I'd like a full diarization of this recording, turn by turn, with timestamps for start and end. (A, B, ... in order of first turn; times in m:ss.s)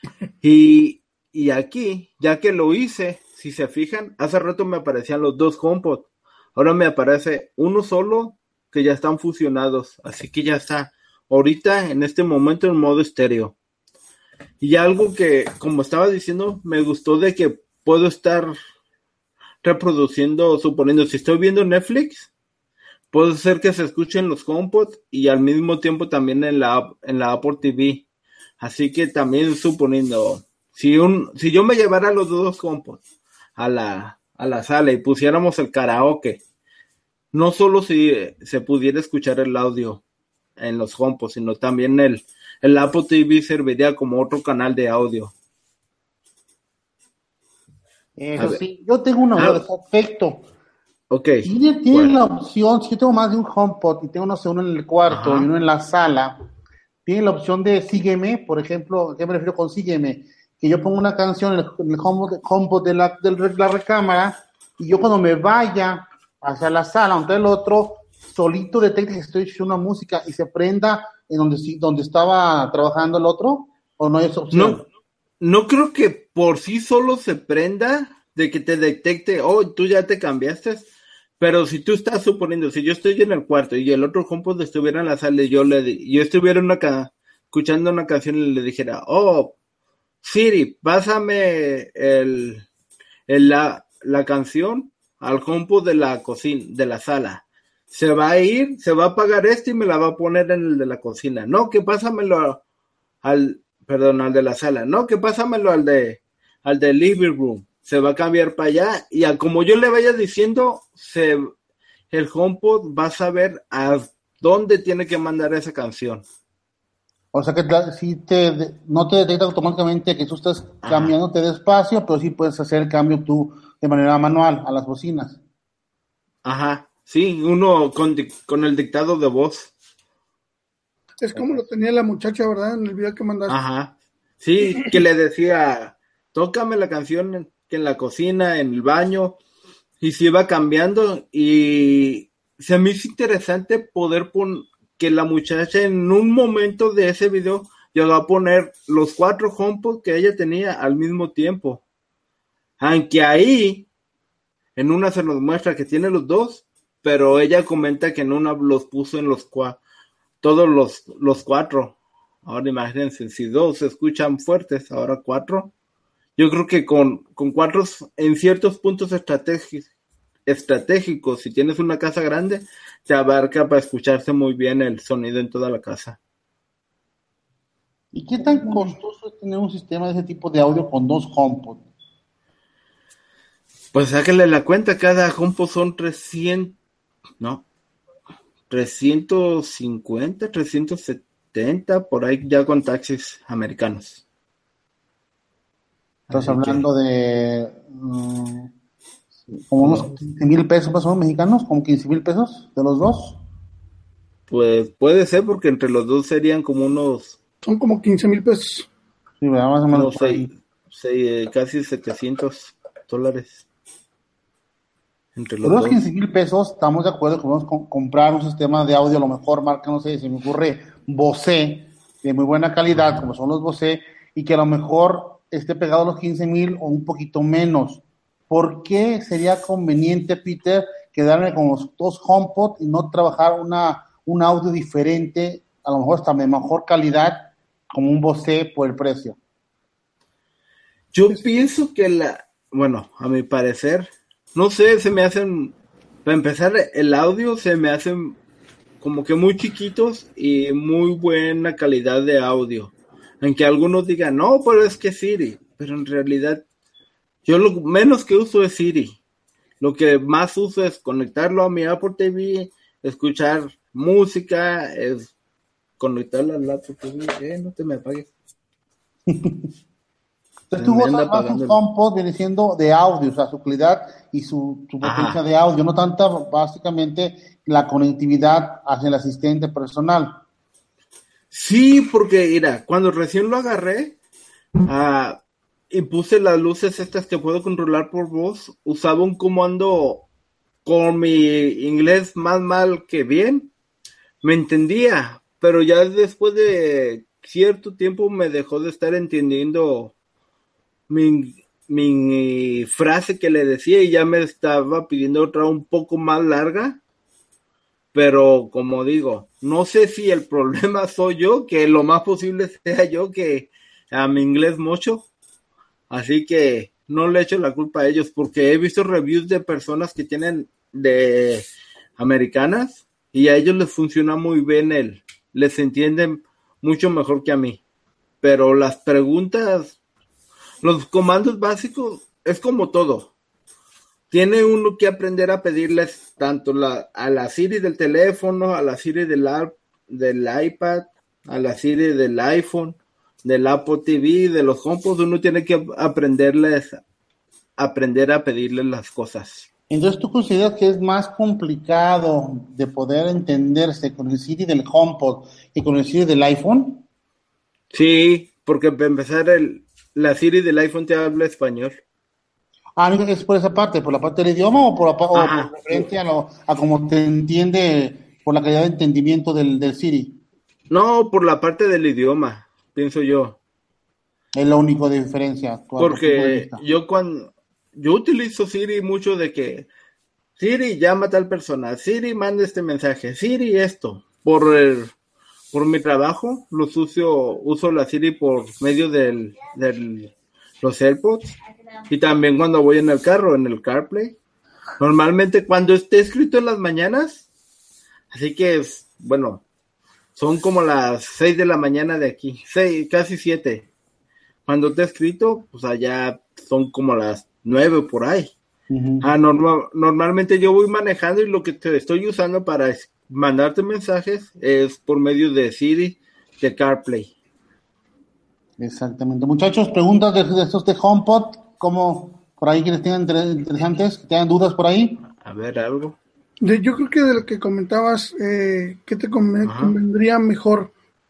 0:00.4-0:13.5 A
0:14.6-0:18.5 A
0:19.6-0:22.3 A
0:23.1-0:28.0 A
0:28.6-0:33.0 A
0:33.6-0:36.4 A
0:37.3-0:40.0 A
0:40.6-0:45.3 A
0:48.2-0:50.4 B
0:48.4-0:48.6 A
0:49.4-0:49.6 A
0:51.1-0:52.2 A
0:51.4-0:56.4 B
0:55.0-0:55.5 A
0:57.0-1:14.8 B
1:14.5-1:14.8 A
1:15.4-1:29.6 A
1:30.2-1:32.7 A
1:33.3-1:42.6 A
1:43.2-1:51.5 A
1:52.1-1:56.2 A
1:57.3-2:05.4 B
2:00.8-2:01.1 A
2:06.4-2:09.7 A
2:11.2-2:13.6 C
2:11.3-2:11.6 B
2:13.5-2:19.4 A
2:20.0-2:31.8 A
2:32.8-2:33.9 A
2:34.8-2:39.8 A
2:40.4-2:45.7 A
2:46.4-2:49.9 A
2:50.5-2:56.2 A
2:58.1-3:01.8 B
2:58.6-2:58.9 C
3:03.9-3:06.8 A
3:08.7-3:14.2 A
3:16.3-3:16.8 A
3:16.3-3:18.7 B
3:19.5-3:23.4 B
3:19.8-3:20.2 A
3:24.5-3:27.4 A
3:27.6-3:28.9 C
3:29.4-3:30.5 B
3:29.9-3:33.6 A
3:35.4-3:36.0 A
3:35.6-3:59.4 B
4:01.1-4:08.4 A
4:09.0-4:16.6 A
4:17.4-4:19.2 A
4:19.8-4:25.3 A
4:26.0-4:28.3 A
4:29.3-4:29.7 B
4:30.7-4:40.4 B
4:30.8-4:31.8 A
4:35.0-4:35.4 A
4:41.5-4:44.2 A
4:44.8-4:50.3 A
4:50.8-4:53.7 A
4:54.4-5:00.1 A
5:01.1-5:07.0 A
5:08.1-5:15.2 A
5:16.1-5:27.8 A
5:28.4-5:30.0 A
5:30.8-5:33.3 A
5:34.3-5:47.0 A
5:47.8-5:49.7 A
5:49.9-5:57.0 B
5:57.9-6:02.0 A
6:03.0-6:10.4 B
6:05.3-6:06.0 A
6:10.9-6:13.6 A
6:14.5-6:16.8 B
6:16.0-6:19.9 A
6:20.6-6:25.1 A
6:25.7-6:34.4 A
6:35.0-6:37.4 A
6:38.3-6:39.6 A
6:40.4-6:43.9 A
6:44.6-6:48.5 A
6:48.9-6:49.3 B
6:49.2-6:57.3 A
6:58.8-7:05.2 B
7:05.4-7:06.2 A
7:06.6-7:10.9 C
7:09.6-7:10.0 A